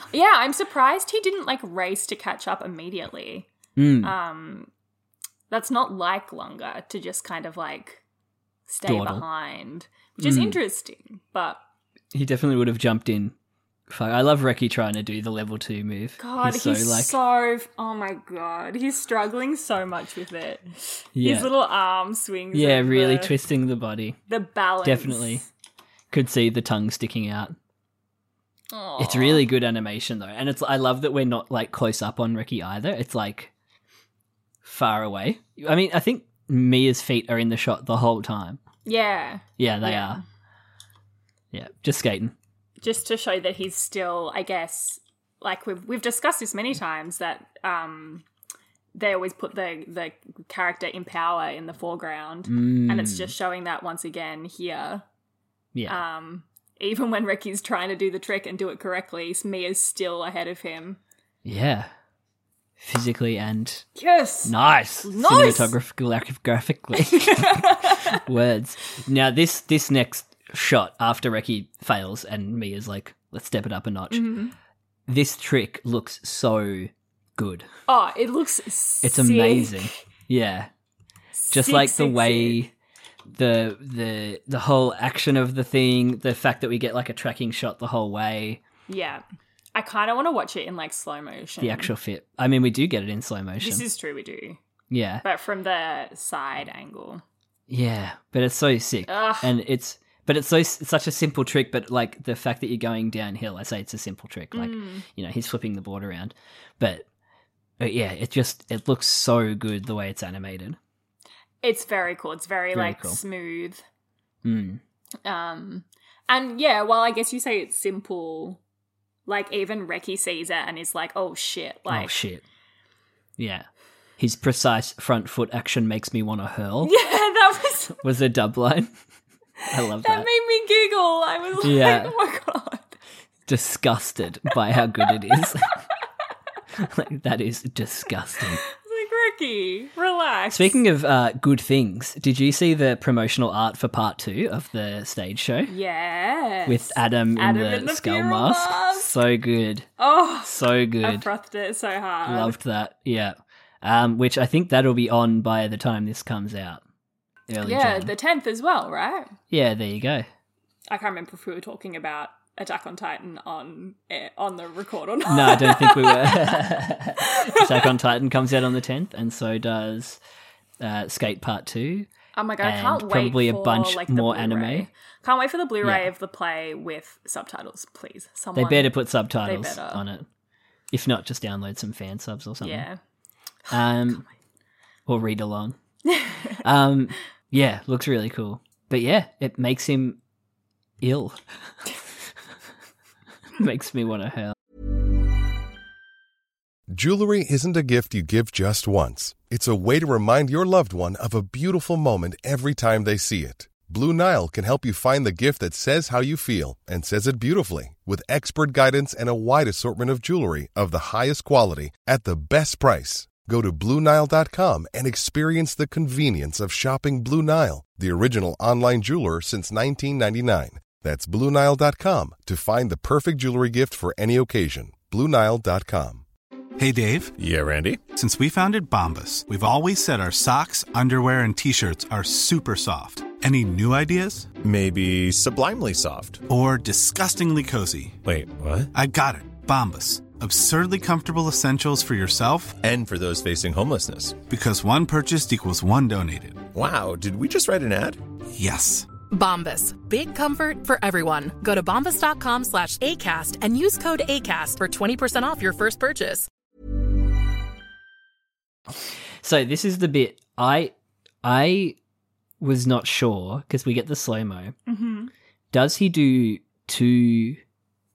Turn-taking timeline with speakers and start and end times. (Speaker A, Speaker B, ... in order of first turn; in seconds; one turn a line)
Speaker A: 0.1-3.5
Speaker B: 3.8-4.2
Speaker A: 4.0-4.7
Speaker A: 5.5-8.0
Speaker A: 8.7-11.6
Speaker B: 8.8-9.2
Speaker B: 10.2-10.6
Speaker B: 12.1-13.3
Speaker B: 13.9-17.2
Speaker A: 16.2-23.4
Speaker B: 21.1-21.5
Speaker B: 22.5-24.2
Speaker A: 24.3-25.5
Speaker B: 24.8-25.4
Speaker B: 26.1-27.6
Speaker A: 28.7-29.5
Speaker B: 29.0-33.5
Speaker B: 34.6-38.6
Speaker A: 38.9-40.2
Speaker B: 39.6-40.2
Speaker B: 41.5-42.4
Speaker A: 42.8-48.2
Speaker A: 49.0-55.0
Speaker B: 52.5-53.4
Speaker B: 55.7-56.0
Speaker A: 55.9-61.0
Speaker B: 61.4-61.9
Speaker B: 62.8-63.9
Speaker A: 64.0-65.7
Speaker B: 64.4-74.3
Speaker A: 67.0-68.2
Speaker A: 74.1-74.5
Speaker B: 75.1-77.7
Speaker A: 77.9-80.0
Speaker B: 79.0-80.7
Speaker A: 81.4-82.6
Speaker B: 81.5-82.7
Speaker B: 83.3-88.6
Speaker A: 88.9-89.2
Speaker A: 89.8-91.9
Speaker B: 91.6-93.9
Speaker A: 93.6-94.6
Speaker B: 94.9-95.2
Speaker A: 95.2-97.2
Speaker B: 97.7-107.0
Speaker A: 99.1-99.5
Speaker A: 104.5-105.0
Speaker B: 107.8-110.8
Speaker A: 111.6-113.8
Speaker B: 112.7-113.2
Speaker B: 114.4-114.8
Speaker A: 115.2-118.6
Speaker A: 119.3-122.2
Speaker B: 121.9-122.4
Speaker B: 123.4-123.7
Speaker B: 124.2-126.9
Speaker A: 126.8-128.0
Speaker B: 128.0-128.9
Speaker B: 129.7-130.3
Speaker A: 129.9-133.0
Speaker B: 131.6-132.1
Speaker B: 133.5-135.8
Speaker B: 136.8-138.6
Speaker A: 138.6-140.8
Speaker B: 140.5-145.7
Speaker A: 145.7-149.1
Speaker B: 146.7-149.9
Speaker A: 150.0-152.6
Speaker B: 150.4-151.3
Speaker B: 152.3-156.8
Speaker B: 157.5-158.1
Speaker A: 157.6-159.3
Speaker B: 159.5-160.3
Speaker A: 160.9-166.7
Speaker B: 165.3-170.2
Speaker A: 167.2-167.9
Speaker B: 170.8-172.1
Speaker A: 172.4-180.0
Speaker B: 172.6-174.9
Speaker B: 175.8-176.1
Speaker B: 178.6-180.3
Speaker B: 180.9-182.9
Speaker A: 182.6-183.0
Speaker B: 183.7-184.2
Speaker B: 185.1-185.8
Speaker A: 186.1-186.6
Speaker B: 186.6-190.2
Speaker B: 191.0-191.4
Speaker B: 193.6-194.6
Speaker C: 196.9-226.2
Speaker D: 226.8-227.3
Speaker E: 227.4-228.0
Speaker D: 228.1-234.5
Speaker E: 234.6-236.4
Speaker D: 236.5-238.2
Speaker E: 238.2-238.9
Speaker D: 238.9-242.8
Speaker E: 242.8-244.4
Speaker D: 244.5-246.7
Speaker E: 246.7-248.2
Speaker D: 248.5-249.1
Speaker F: 249.3-256.5
Speaker B: 259.4-262.0
Speaker B: 262.6-264.8
Speaker A: 264.9-265.3
Speaker B: 265.7-267.6